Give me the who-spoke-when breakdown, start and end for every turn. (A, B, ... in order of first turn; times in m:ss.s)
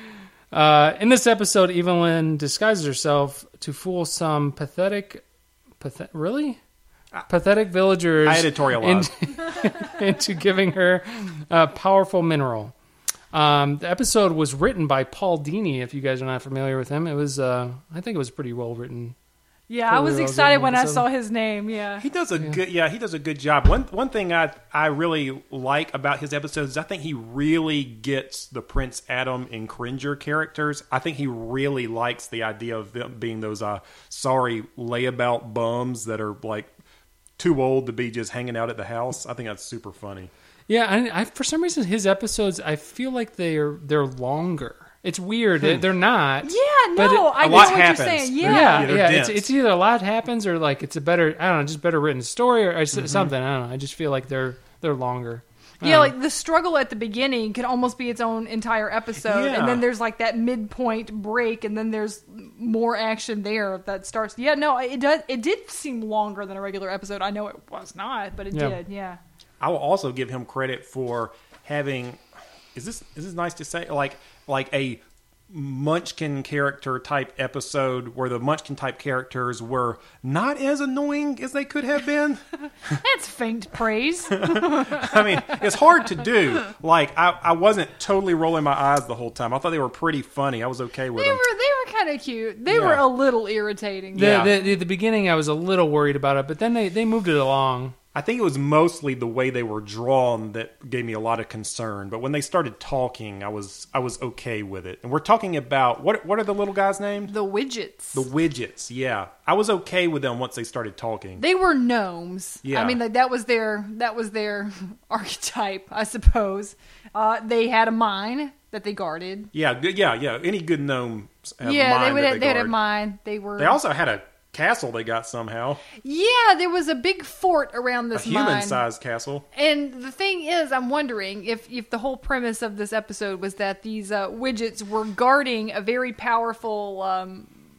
0:00.5-0:05.2 A
0:05.8-0:06.6 A
0:07.3-0:12.7 A
0:08.2-0:09.1 B
0:13.3-0:19.1 A
0:19.7-0:22.0 C
0:19.9-0:21.0 A
0:22.0-0:36.7 B
0:37.4-0:40.3 B
0:40.7-0:47.8 A
0:46.4-0:48.9 C
0:47.3-0:49.4 B
0:48.4-0:56.1 A
0:52.9-0:53.3 B
0:55.8-1:09.2 C
0:59.2-0:59.8 B
1:08.5-1:08.8 A
1:09.6-1:12.2 B
1:12.7-1:23.0 B
1:23.0-1:25.6 C
1:24.3-1:31.4 B
1:31.1-1:34.7 C
1:32.7-1:33.0 B
1:34.1-1:34.5 B
1:34.1-1:37.9 A
1:38.1-1:47.3 B
1:47.3-1:48.2 C
1:48.1-1:51.4 B
1:51.4-1:59.5 C
1:52.6-1:53.0 B
1:59.5-2:02.7 B
2:01.6-2:03.8 C
2:03.6-2:05.8 B
2:06.0-2:08.8 C
2:08.1-2:09.4 B
2:09.5-2:17.5 C